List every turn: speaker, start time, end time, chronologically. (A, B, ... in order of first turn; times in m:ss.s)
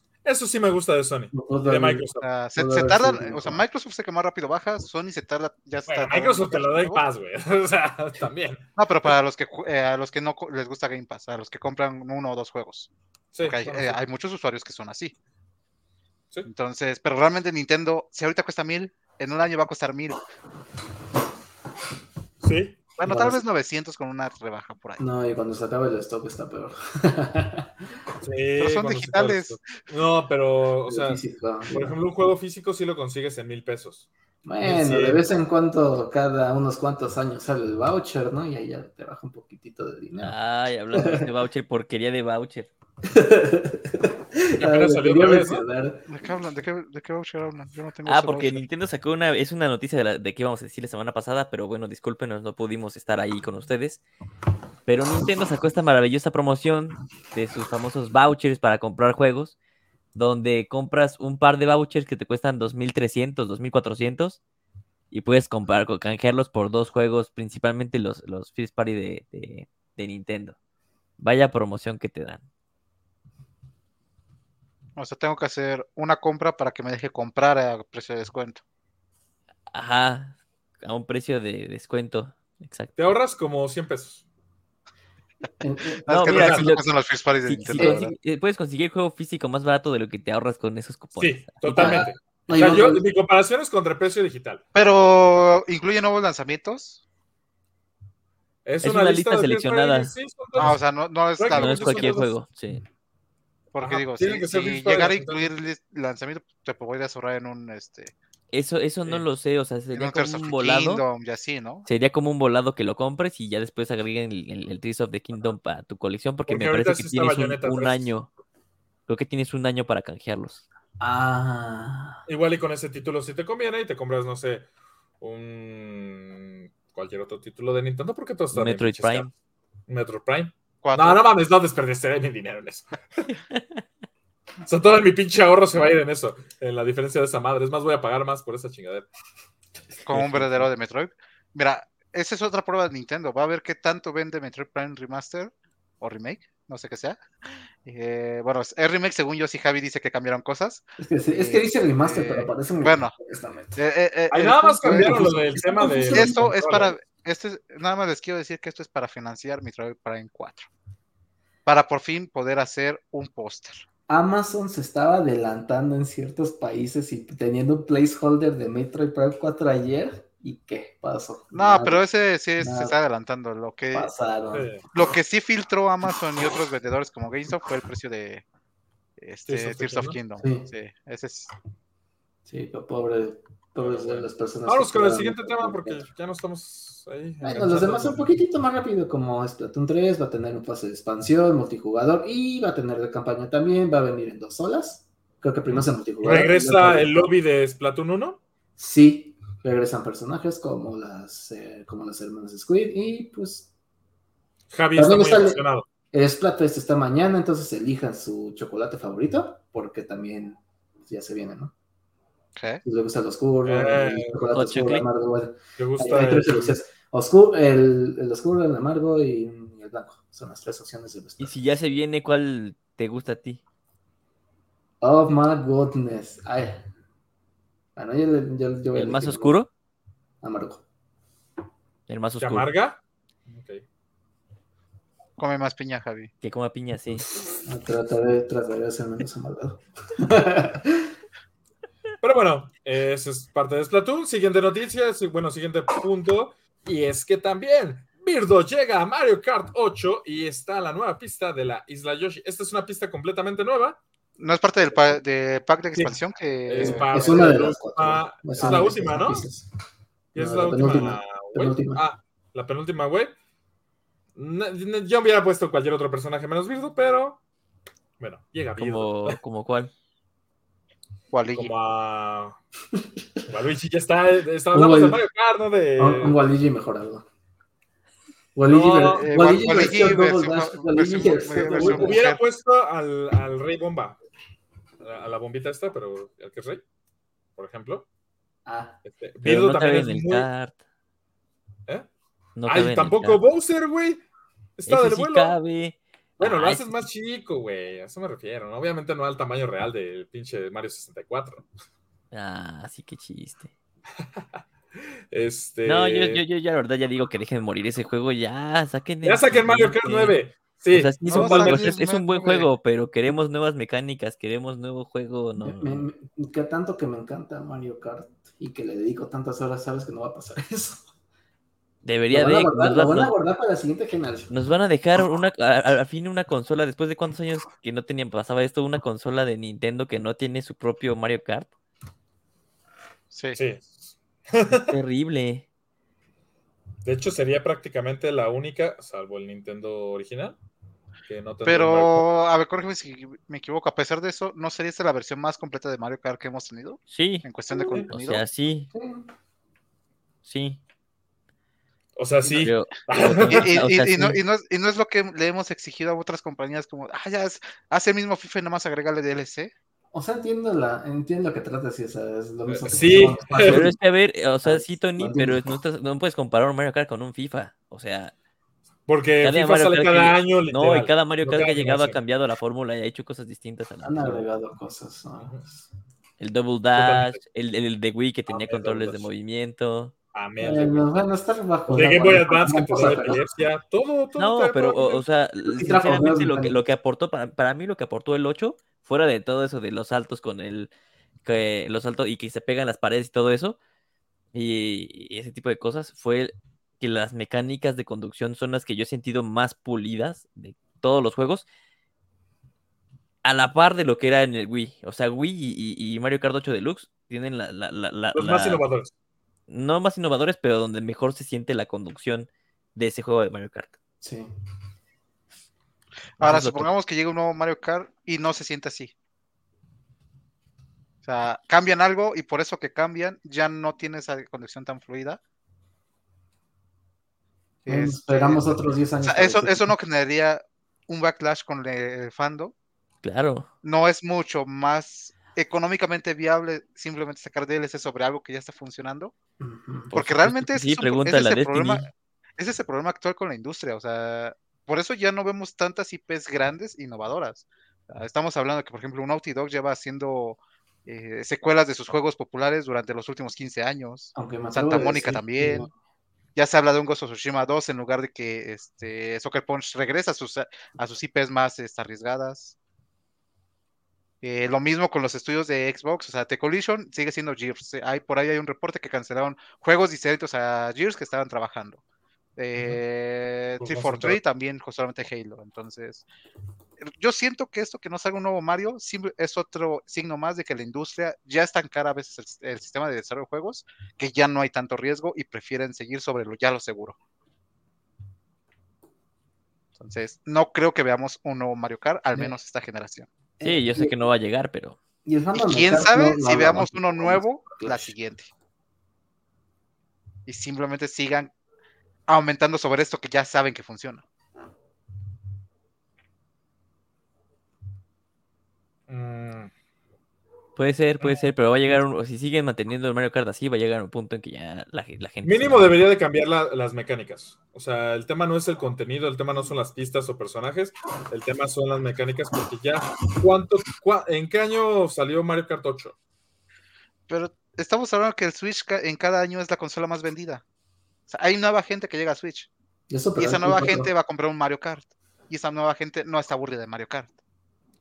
0:00.2-0:02.2 A
0:01.3-0:03.6 B
0:02.2-0:07.0 C
0:05.9-0:09.1 A
0:08.8-0:12.9 C
0:13.3-0:14.0 A
0:13.4-0:15.1 C
0:16.5-0:20.2 C
0:22.4-0:22.8 A
0:23.0-0:25.0 C
0:23.0-0:23.4 B
0:25.0-0:27.7 B
0:28.2-0:34.1 A
0:28.6-0:29.6 C
0:30.9-0:32.0 B
0:34.4-0:40.4 B
0:34.6-0:35.2 A
0:40.2-0:42.7 D
0:40.9-0:41.3 B
0:43.1-0:46.1 B
0:44.6-0:45.6 A
0:46.1-0:48.6 C
0:48.0-0:54.0 D
0:54.9-0:59.6 D
1:00.2-1:04.4 D
1:05.1-1:10.6 D
1:11.2-1:12.4 D
1:15.0-1:18.6 C
1:19.7-1:22.9 D
1:23.0-1:24.2 A
1:25.6-1:26.0 B
1:26.1-1:28.1 C
1:26.1-1:26.9 D
1:26.3-1:26.7 A
1:27.4-1:32.1 D
1:27.7-1:28.1 B
1:31.1-1:34.6 A
1:31.8-1:33.0 B
1:34.8-1:37.0 C
1:38.6-1:40.8 A
1:38.8-1:40.1 D
1:40.6-1:42.3 C
1:41.4-1:42.3 A
1:41.5-1:42.8 D
1:43.7-1:48.1 C
1:43.8-1:45.5 A
1:48.5-1:51.0 D
1:49.9-1:51.9 C
1:51.9-1:58.3 D
1:56.5-1:58.1 A
1:59.1-2:00.7 D
2:01.0-2:02.2 B
2:02.3-2:04.7 A
2:05.2-2:09.3 A
2:08.5-2:09.3 D
2:09.9-2:13.3 A
2:10.8-2:11.2 C
2:13.5-2:13.8 D
2:14.7-2:19.1 A
2:20.0-2:20.7 A
2:20.1-2:27.2 C
2:27.8-2:33.2 C
2:31.0-2:33.8 B
2:33.8-2:35.4 C
2:34.3-2:36.9 A
2:34.8-2:36.5 B
2:36.1-2:40.7 C
2:41.7-2:43.8 C
2:44.1-2:52.0 B
2:51.5-2:54.1 C
2:52.6-2:53.0 B
2:53.9-2:54.7 B
2:54.5-2:54.9 A
2:54.9-2:58.4 C
2:59.2-3:01.5 C
2:59.5-3:00.2 A
3:00.4-3:00.7 B
3:02.5-3:06.0 B
3:03.8-3:08.3 A
3:07.4-3:17.3 B
3:15.7-3:18.4 A
3:18.8-3:23.7 B
3:24.7-3:25.9 A
3:25.0-3:31.7 B
3:32.6-3:32.8 C
3:32.8-3:41.5 B
3:33.6-3:34.5 A
3:34.5-3:35.1 D
3:35.8-3:36.8 A
3:41.4-3:43.6 D
3:45.0-3:46.9 B
3:48.0-3:49.6 B
3:49.0-3:49.7 D
3:50.4-3:50.8 B
3:52.1-3:52.7 D
3:52.4-3:53.8 A
3:55.4-3:56.3 C
3:56.4-3:57.3 D
3:57.6-4:01.1 B
4:02.2-4:14.0 A
4:14.4-4:17.6 C
4:16.7-4:19.5 A
4:16.8-4:19.6 B
4:20.3-4:23.3 A
4:20.4-4:22.0 B
4:24.4-4:27.4 A
4:28.2-4:29.4 A
4:28.8-4:29.9 D
4:31.3-4:31.7 C
4:31.5-4:32.6 A
4:33.5-4:36.4 A
4:34.7-4:35.2 B
4:36.0-4:37.3 B
4:38.6-4:42.2 B
4:38.7-4:40.2 A
4:39.2-4:42.4 C
4:41.5-4:44.2 A
4:45.0-4:46.8 A
4:47.6-4:48.1 A
4:48.7-4:49.0 B
4:49.0-4:50.5 A
4:49.4-4:50.8 D
4:52.6-4:53.4 D
4:52.7-4:54.2 A
4:54.8-4:55.6 A
4:54.9-4:57.0 D
4:56.4-5:01.7 A
5:02.3-5:03.7 D
5:05.3-5:06.4 A
5:05.8-5:10.4 D
5:09.2-5:11.9 A
5:10.9-5:16.1 D
5:11.3-5:12.7 C
5:15.6-5:21.1 B
5:22.0-5:23.4 D
5:22.3-5:24.5 B
5:24.5-5:31.7 D
5:33.3-5:33.6 C
5:33.6-5:34.9 A
5:34.7-5:35.7 D
5:37.0-5:40.6 A
5:41.3-5:42.3 A
5:41.7-5:48.4 C
5:47.1-5:48.9 D
5:48.9-5:49.3 B
5:50.4-5:50.8 D
5:52.2-5:53.7 A
5:52.4-5:54.4 D
5:53.5-5:59.7 C
6:00.1-6:04.0 B
6:02.7-6:03.8 A
6:03.6-6:08.3 D
6:04.6-6:05.6 B
6:09.1-6:12.2 A
6:09.4-6:14.5 D
6:14.0-6:15.5 B
6:15.4-6:15.8 A
6:16.4-6:20.1 D
6:17.0-6:17.4 A
6:18.5-6:19.3 A
6:20.3-6:21.1 A
6:20.6-6:23.4 B
6:21.9-6:25.2 A
6:24.4-6:30.9 D
6:25.7-6:26.8 B
6:31.4-6:33.8 D
6:34.5-6:41.6 D
6:43.4-6:48.8 D
6:48.3-6:49.1 A
6:49.7-6:54.0 D
6:54.2-6:54.5 B
6:56.4-6:56.9 D
6:56.4-6:59.1 C
7:01.2-7:05.4 C
7:07.9-7:09.9 B
7:07.9-7:12.7 C
7:13.2-7:13.7 D
7:13.8-7:19.3 C
7:19.6-7:20.1 B
7:20.1-7:22.1 D
7:20.1-7:35.9 C
7:34.4-7:35.9 B
7:36.6-7:42.7 C
7:44.4-7:52.0 C
7:52.6-7:56.2 C
7:53.8-7:54.4 A
7:57.0-8:07.2 C
8:10.0-8:13.3 C
8:13.6-8:14.2 B
8:13.6-8:15.0 D
8:15.2-8:18.1 B
8:15.5-8:18.5 C
8:20.5-8:21.5 C
8:22.3-8:24.2 C
8:29.1-8:29.7 A
8:30.8-8:35.9 D
8:31.2-8:32.0 A
8:35.4-8:46.2 A
8:47.3-8:50.6 C
8:51.3-8:52.7 C
8:53.1-8:54.1 B
8:53.4-8:57.4 C